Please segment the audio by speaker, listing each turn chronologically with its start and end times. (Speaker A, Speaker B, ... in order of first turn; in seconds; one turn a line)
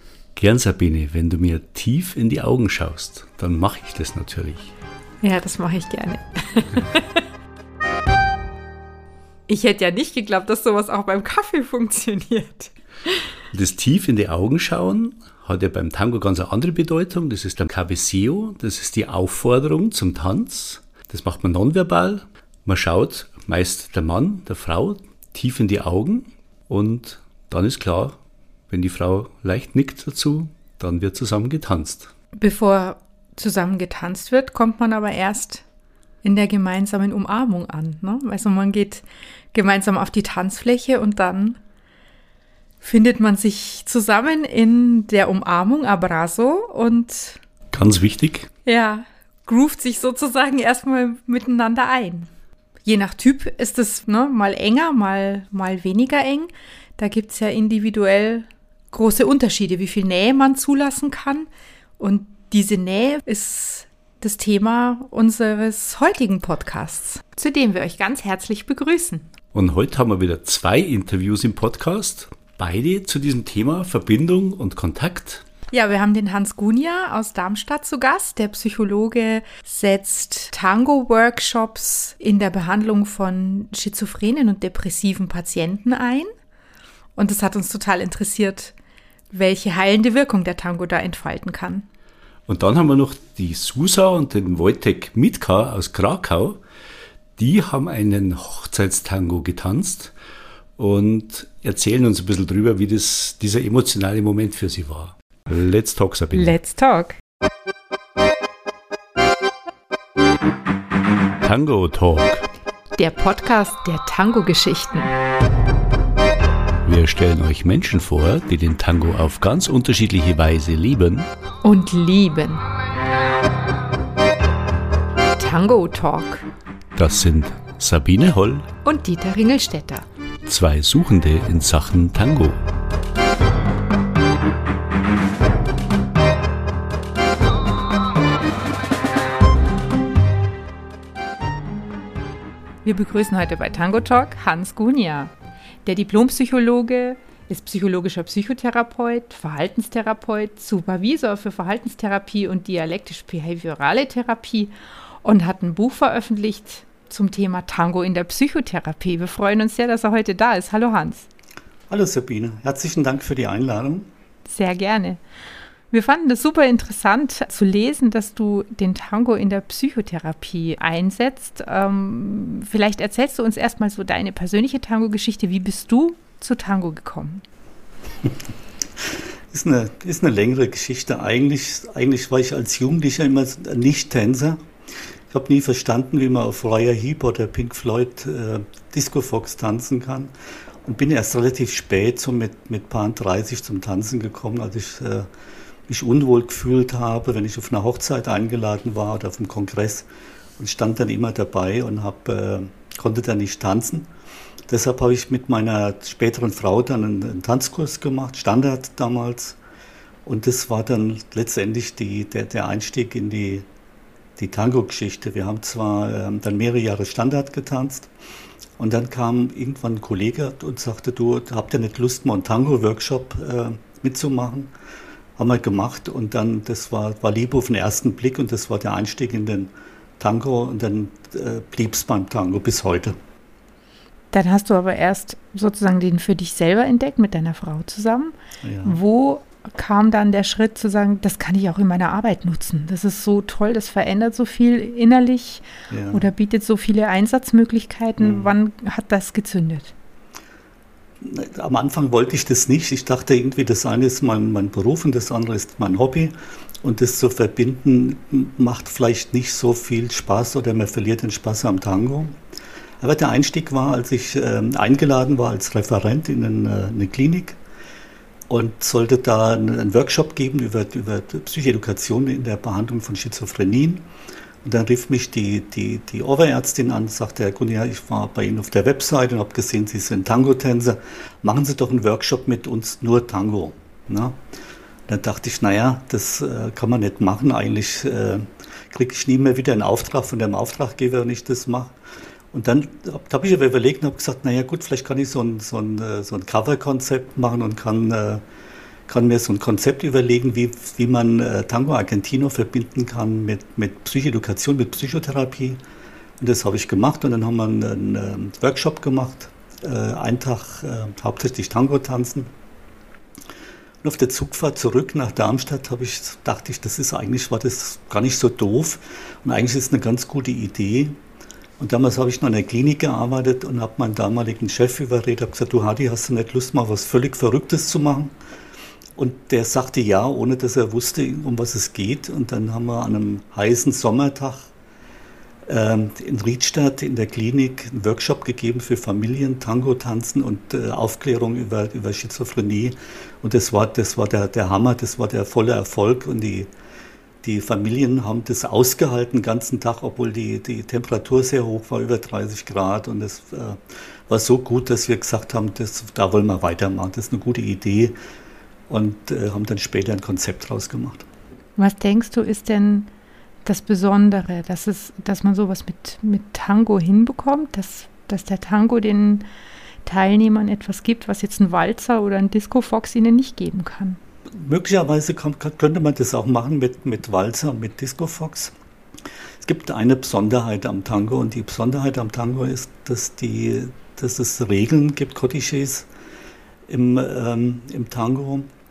Speaker A: 0.4-4.7
Speaker B: 5.2-7.2
Speaker B: 9.5-13.2
Speaker A: 13.5-28.2
Speaker A: 28.7-32.1
Speaker B: 32.4-35.6
Speaker B: 36.2-41.6
Speaker B: 42.8-47.4
Speaker A: 47.7-48.5
Speaker B: 48.7-52.3
Speaker B: 52.9-61.5
Speaker B: 62.0-69.3
Speaker A: 69.5-75.4
Speaker B: 75.7-86.3
Speaker B: 87.2-88.8
Speaker B: 89.3-91.9
Speaker A: 92.5-96.6
Speaker A: 97.4-100.1
Speaker A: 100.8-106.6
Speaker B: 106.3-107.2
Speaker A: 111.4-112.5
Speaker B: 113.0-115.1
Speaker A: 116.8-121.3
Speaker B: 121.6-122.6
Speaker B: 125.3-126.5
Speaker A: 127.0-128.7
Speaker B: 128.8-130.1
Speaker A: 130.4-132.6
Speaker B: 142.8-145.3
Speaker B: 145.8-161.3
Speaker C: 161.9-164.1
Speaker B: 164.5-165.2
Speaker B: 165.9-177.4
Speaker C: 179.0-184.7
Speaker C: 185.3-190.3
Speaker C: 190.8-195.3
Speaker C: 195.9-200.1
Speaker C: 200.6-204.1
Speaker C: 204.7-209.6
Speaker C: 210.2-213.7
Speaker C: 214.4-218.1
Speaker C: 218.8-224.7
Speaker C: 225.4-233.2
Speaker B: 234.3-249.9
Speaker C: 238.6-239.0
Speaker C: 245.9-246.3
Speaker C: 248.2-248.5
Speaker C: 251.2-262.4
Speaker C: 263.0-267.6
Speaker C: 268.5-274.1
Speaker C: 274.6-284.4
Speaker C: 285.1-292.0
Speaker C: 292.5-298.4
Speaker C: 299.1-305.8
Speaker C: 306.4-312.5
Speaker C: 314.0-321.2
Speaker C: 321.8-328.4
Speaker C: 329.2-334.7
Speaker C: 335.7-346.7
Speaker C: 347.4-358.2
Speaker C: 358.9-361.3
Speaker B: 361.8-363.1
Speaker B: 363.6-369.4
Speaker B: 370.1-374.2
Speaker C: 374.5-378.8
Speaker C: 379.6-386.1
Speaker C: 386.9-388.7